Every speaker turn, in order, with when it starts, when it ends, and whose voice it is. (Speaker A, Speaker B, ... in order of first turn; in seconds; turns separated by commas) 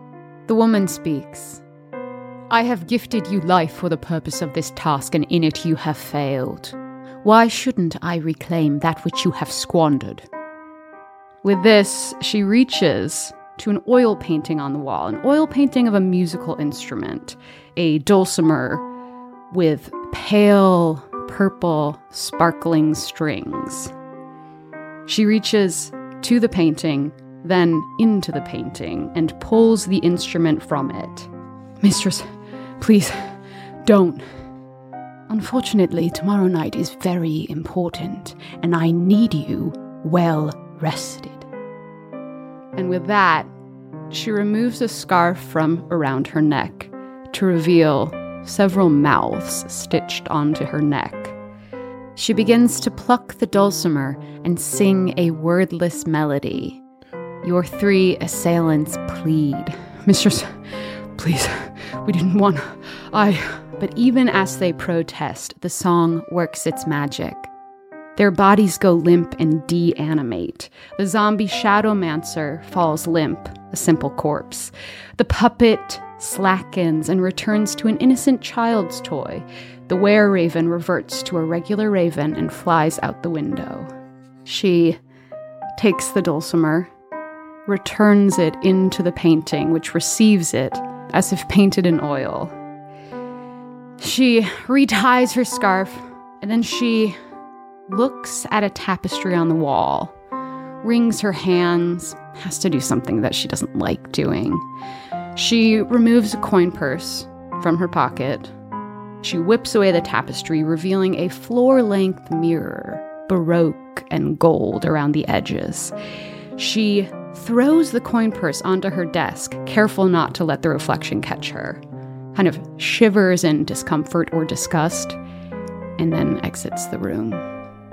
Speaker A: 0.5-1.6, Speaker A: 2.5-10.3, Speaker A: 11.4-18.9, Speaker A: 19.5-23.9, Speaker A: 25.1-31.3, Speaker A: 31.8-32.3, Speaker A: 32.8-33.2, Speaker A: 33.9-34.2, Speaker A: 35.3-41.5, Speaker A: 42.8-43.5, Speaker A: 44.1-51.4, Speaker A: 52.2-56.8, Speaker A: 57.4-60.5, Speaker A: 61.2-67.5, Speaker A: 68.2-83.9, Speaker A: 84.5-85.0, Speaker A: 85.8-86.9, Speaker A: 87.7-92.5, Speaker A: 94.0-97.2, Speaker A: 97.9-100.1, Speaker A: 100.8-104.6, Speaker A: 105.3-108.5, Speaker A: 109.2-115.9, Speaker A: 116.6-121.8, Speaker A: 122.3-125.2, Speaker A: 126.0-127.4